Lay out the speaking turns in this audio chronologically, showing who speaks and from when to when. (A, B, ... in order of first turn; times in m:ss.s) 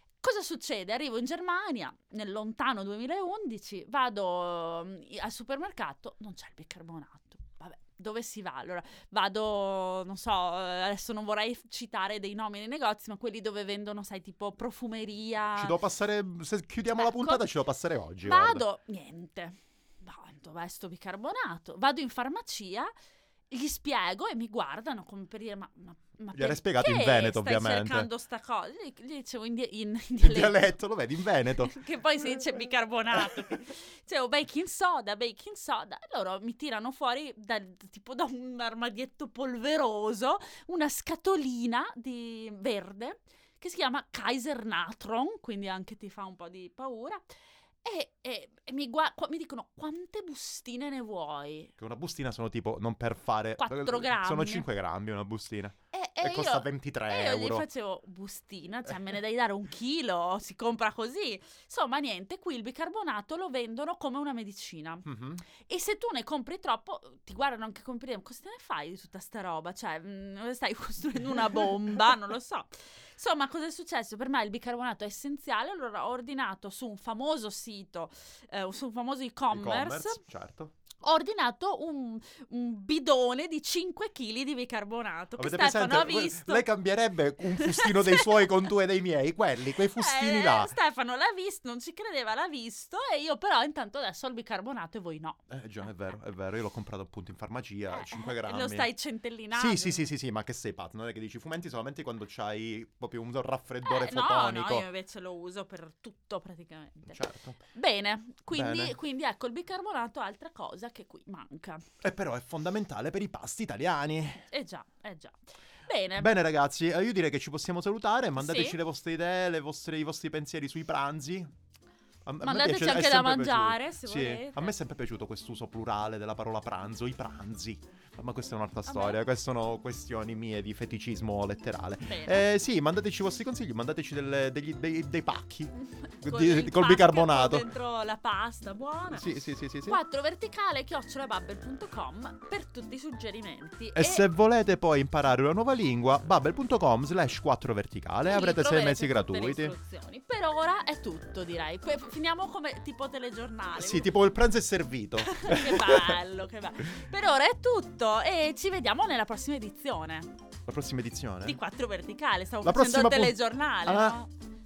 0:00.2-0:15.8 A
0:15.6-0:18.6 B
0:16.9-0:17.5 A
0:18.2-0:22.9 A
0:23.5-0:30.7 A
0:26.4-0:28.1 B
0:30.2-0:31.8 B
0:31.6-0:47.2 A
0:47.8-0:51.7 A
0:51.8-0:57.7 B
0:53.6-0:54.7 A
0:55.9-1:05.1 A
1:05.1-1:05.4 B
1:05.7-1:20.2 A
1:19.5-1:20.7 B
1:21.0-1:26.7 A
1:25.4-1:30.8 B
1:27.6-1:28.5 A
1:29.9-1:35.4 A
1:35.5-1:38.9 B
1:37.9-1:40.1 A
1:39.5-1:44.9 B
1:43.8-1:47.2 A
1:47.1-1:47.6 B
1:47.7-1:51.8 A
1:48.5-1:49.0 B
1:52.0-1:54.4 B
1:54.5-1:56.3 A
1:56.2-2:01.5 B
1:58.4-1:58.8 A
2:02.3-2:17.7 B
2:02.4-2:04.8 A
2:08.9-2:09.2 A
2:12.1-2:12.5 A
2:16.0-2:19.3 A
2:19.1-2:20.0 B
2:19.9-2:24.3 A
2:24.0-2:29.8 B
2:28.3-2:34.1 A
2:33.8-2:36.2 B
2:35.2-2:40.3 A
2:40.7-2:41.6 B
2:41.4-2:44.3 A
2:42.6-2:44.2 B